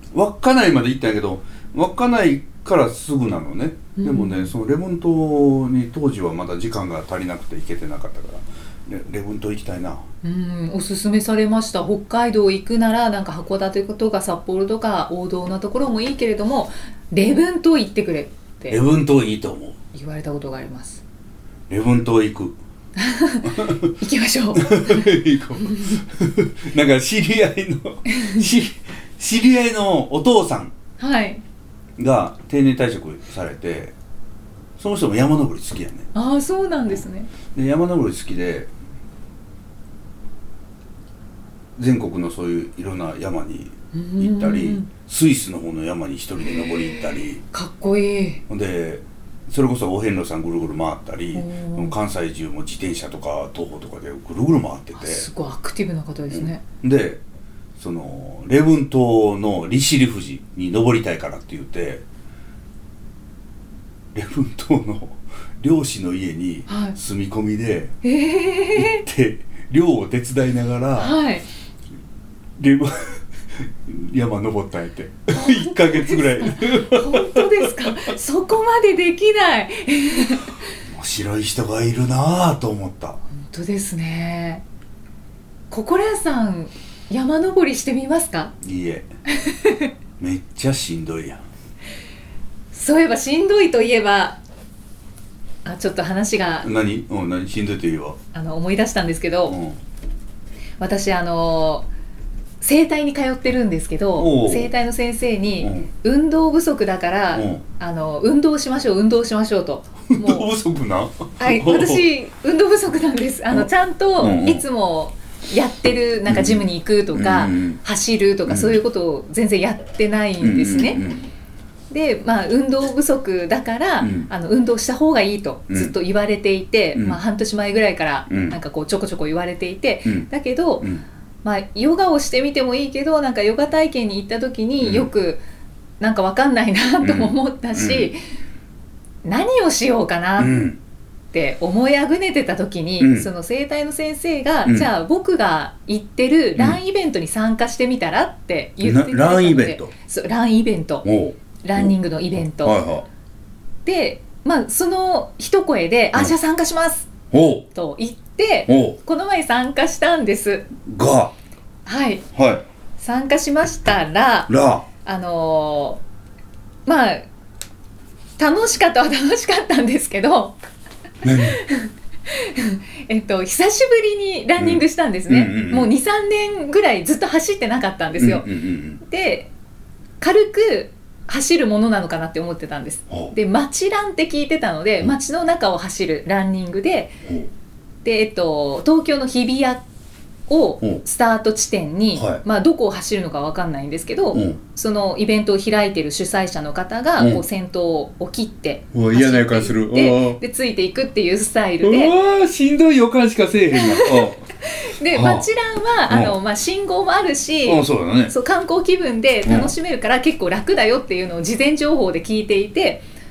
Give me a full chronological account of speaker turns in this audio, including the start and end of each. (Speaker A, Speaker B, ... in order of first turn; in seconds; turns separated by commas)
Speaker A: 0.1-10.0, Speaker B: 4.0-4.5, Speaker B: 10.2-18.8, Speaker A: 18.7-19.8, Speaker B: 19.9-21.0, Speaker A: 21.7-22.6, Speaker B: 23.0-26.0, Speaker A: 23.4-23.9, Speaker A: 24.6-30.7, Speaker B: 28.1-28.5, Speaker B: 31.0-31.4, Speaker A: 32.0-33.9, Speaker A: 34.8-36.1, Speaker B: 36.1-37.3, Speaker A: 37.5-38.7, Speaker A: 41.8-47.4, Speaker B: 43.9-44.9, Speaker B: 47.5-48.4, Speaker A: 48.5-55.3, Speaker B: 51.3-52.0, Speaker B: 55.0-56.6, Speaker A: 56.3-57.2, Speaker A: 57.8-62.0, Speaker A: 64.1-68.0, Speaker B: 66.7-67.0, Speaker B: 68.0-69.0, Speaker A: 68.8-71.2, Speaker B: 71.0-71.5, Speaker A: 72.6-78.1, Speaker B: 75.3-80.8, Speaker A: 80.8-83.2, Speaker B: 83.4-84.6, Speaker B: 85.7-88.5, Speaker A: 88.6-89.1, Speaker B: 89.3-89.9, Speaker A: 90.2-91.4, Speaker B: 92.7-94.4, Speaker B: 95.7-96.7, Speaker A: 96.6-98.2, Speaker B: 98.3-99.6, Speaker A: 99.5-99.8, Speaker B: 100.8-101.9, Speaker B: 102.6-110.5, Speaker A: 104.2-104.7, Speaker A: 105.6-105.9, Speaker A: 107.3-107.6, Speaker A: 110.1-112.0, Speaker B: 111.4-121.0, Speaker A: 113.5-114.6, Speaker A: 116.3-117.8, Speaker A: 118.5-118.8, Speaker A: 120.4-121.3, Speaker B: 121.9-130.9, Speaker A: 124.0-124.3, Speaker A: 125.7-125.9, Speaker A: 128.3-128.6, Speaker B: 131.4-135.4, Speaker A: 134.8-135.1, Speaker B: 136.0-138.2, Speaker A: 137.0-138.1, Speaker B: 139.2-140.7, Speaker A: 140.4-140.8, Speaker B: 141.3-151.1, Speaker A: 143.0-143.3, Speaker A: 148.8-149.9, Speaker A: 151.0-153.1, Speaker B: 151.6-152.8, Speaker B: 153.8-157.1, Speaker A: 157.3-157.7, Speaker B: 157.7-160.7, Speaker A: 158.7-159.0, Speaker A: 160.8-161.3, Speaker B: 161.9-162.2, Speaker A: 162.3-162.6, Speaker B: 163.0-164.5, Speaker A: 164.5-164.9, Speaker B: 165.1-166.0, Speaker B: 166.9-167.3, Speaker B: 168.4-170.6, Speaker A: 171.2-171.6, Speaker B: 171.2-179.5, Speaker A: 174.6-175.9, Speaker A: 178.2-179.0, Speaker B: 180.2-187.2, Speaker B: 188.1-189.8, Speaker B: 190.5-202.1, Speaker A: 192.2-192.4, Speaker A: 197.2-197.4, Speaker A: 198.9-200.4, Speaker A: 201.8-204.5, Speaker B: 203.7-213.1, Speaker A: 205.1-205.5, Speaker A: 206.1-206.4, Speaker A: 207.7-208.3, Speaker A: 209.5-209.7